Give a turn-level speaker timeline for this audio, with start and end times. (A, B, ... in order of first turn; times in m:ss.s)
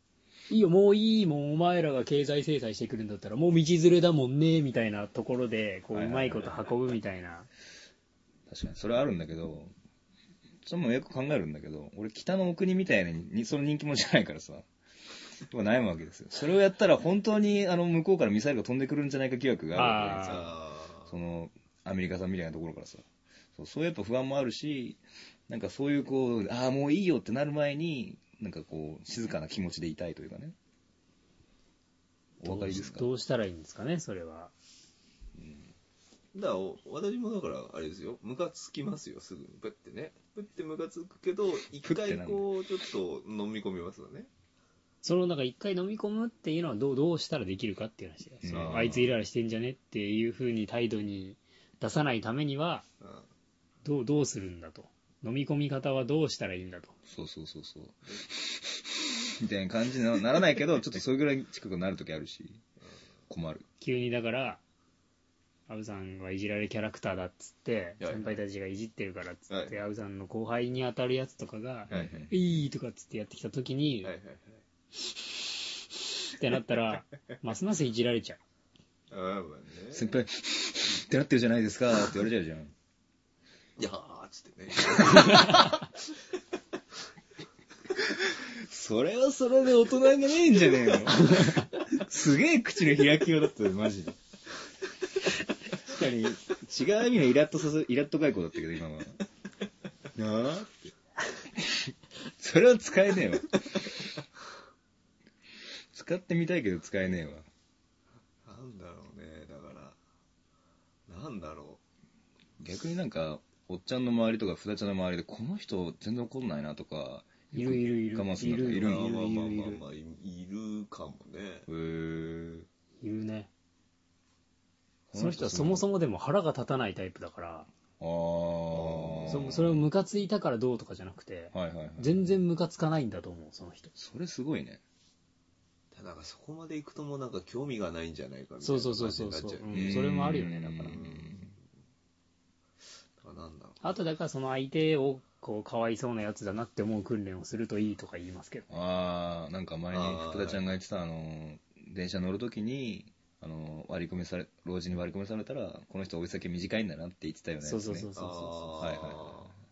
0:00.5-0:07.5 A
0:05.9-0:07.0 B
0:08.5-0:09.7 B
0:10.6-0:14.6 B
0:15.5-0:23.0 B
0:19.7-0:20.5 A
0:20.1-0:21.1 C
0:23.6-0:30.5 B
0:32.4-0:33.1 B
0:32.4-0:34.5 A
0:35.3-0:35.7 B
0:36.3-0:44.3 C
0:41.8-0:42.5 B
0:45.0-0:52.8 A
0:48.4-0:49.1 B
0:48.5-0:49.0 C
0:53.0-0:53.2 C
0:53.8-0:56.9 A
0:57.1-1:02.6 B
1:03.3-1:03.6 B
1:03.8-1:04.6 A
1:05.7-1:14.1 A
1:08.0-1:08.4 C
1:09.5-1:09.8 C
1:11.9-1:12.3 C
1:11.9-1:12.3 B
1:14.0-1:14.6 C
1:16.3-1:18.4 A
1:19.1-1:20.1 C
1:19.9-1:22.7 B
1:23.8-1:25.8 C
1:24.9-1:25.8 B
1:28.0-1:34.2 B
1:35.7-1:39.2 B
1:40.1-1:40.9 B
1:41.6-1:43.9 B
1:45.9-1:47.5 B
1:48.4-1:50.0 C
1:51.1-1:51.8 C
1:52.6-1:59.2 B
1:57.5-1:59.8 A
1:58.7-2:01.7 C
2:01.7-2:02.7 B
2:03.0-2:03.5 A
2:05.1-2:05.8 B
2:05.1-2:07.7 A
2:08.0-2:09.9 B
2:08.7-2:09.5 C
2:09.3-2:13.9 A
2:11.5-2:12.4 B
2:13.9-2:14.8 B
2:15.9-2:21.5 C
2:18.6-2:21.0 A
2:19.7-2:21.5 B
2:23.2-2:23.9 C
2:23.8-2:28.7 A
2:28.7-2:38.1 B
2:29.9-2:30.6 C
2:37.6-2:38.8 A
2:38.2-2:39.5 C
2:38.8-2:39.5 B